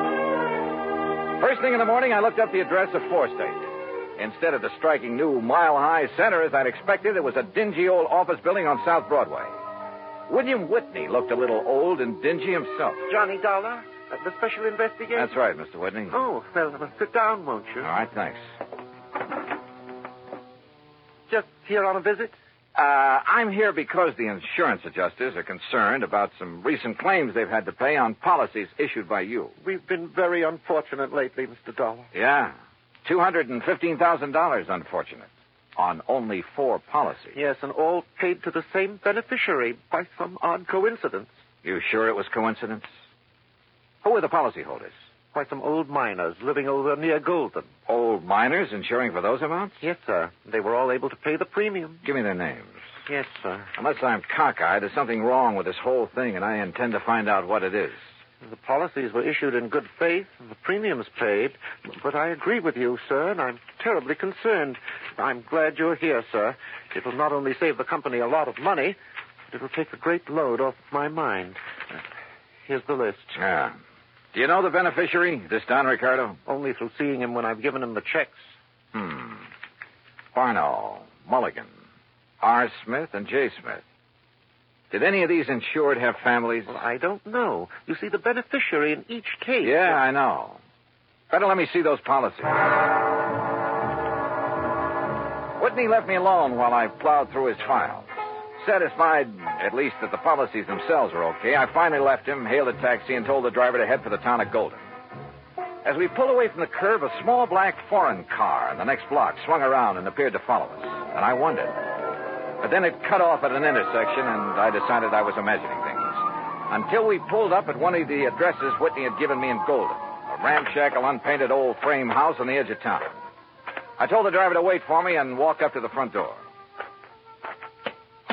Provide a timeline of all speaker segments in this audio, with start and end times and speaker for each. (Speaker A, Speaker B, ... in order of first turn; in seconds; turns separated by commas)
Speaker A: 1.4-9.6, Speaker A: 10.3-13.0, Speaker B: 13.1-15.3, Speaker A: 15.1-16.2, Speaker B: 16.1-17.9, Speaker A: 17.8-18.4, Speaker B: 21.3-22.3, Speaker A: 22.8-29.5, Speaker B: 29.6-32.1, Speaker A: 32.1-32.5, Speaker A: 33.0-37.4, Speaker B: 37.3-41.3, Speaker A: 41.6-42.9, Speaker A: 44.0-44.9, Speaker B: 45.3-47.7, Speaker A: 47.9-49.8, Speaker B: 49.8-52.0, Speaker A: 52.0-52.8, Speaker B: 53.1-53.7, Speaker A: 53.8-58.0, Speaker B: 58.4-69.0, Speaker B: 69.5-71.6, Speaker B: 72.7-73.4, Speaker A: 73.3-73.8, Speaker A: 74.3-76.4, Speaker B: 76.5-78.4, Speaker A: 78.9-79.5, Speaker A: 80.3-81.7, Speaker A: 82.4-83.8, Speaker A: 84.9-86.8, Speaker B: 86.7-90.0, Speaker A: 89.6-90.6, Speaker A: 91.3-92.6, Speaker A: 95.6-104.8, Speaker A: 105.8-111.8, Speaker A: 112.6-123.2, Speaker A: 124.0-126.4